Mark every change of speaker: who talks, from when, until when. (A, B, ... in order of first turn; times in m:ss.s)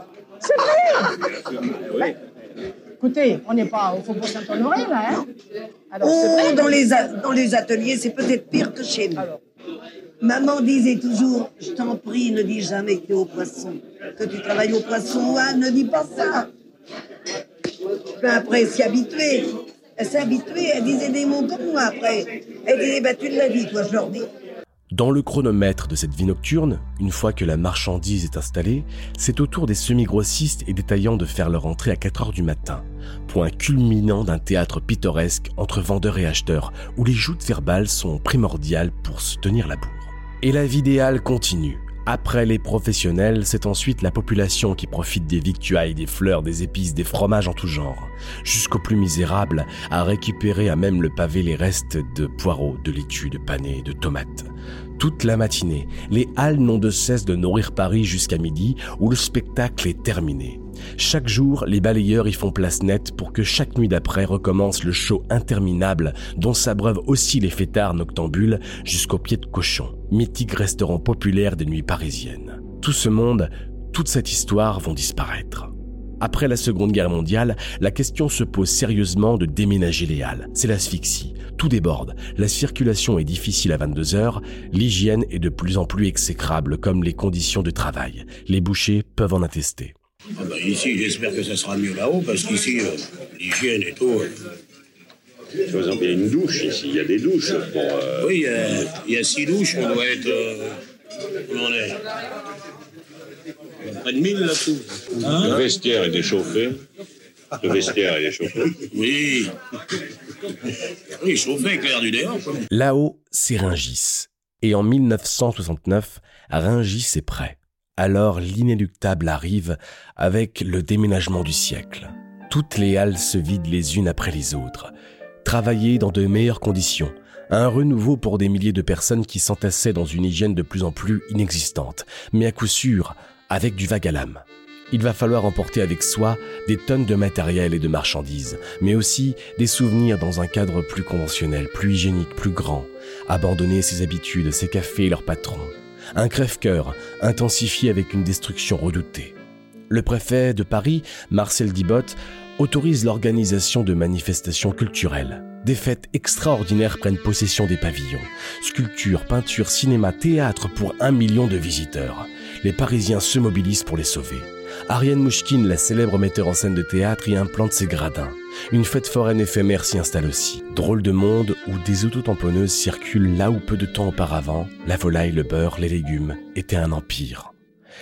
0:00.4-0:01.1 A
0:03.0-0:05.2 A
0:05.9-0:06.8 A
0:06.6-0:08.9 B
0:10.2-0:16.4 B
0:18.2-0:19.5 B
0:20.0-0:21.9 B
0:22.7-0:24.2 B
0:24.9-1:30.0 C
1:30.4-1:34.3 D
1:35.7-1:38.3 E
1:38.2-1:40.8 D
1:41.5-1:42.0 D
1:44.0-1:45.7 D
1:45.4-1:46.7 E
1:47.6-1:48.6 E
1:48.9-1:49.5 D
1:51.2-1:52.6 D
1:52.7-2:04.9 C
2:05.4-2:29.4 C
2:29.9-2:57.5 C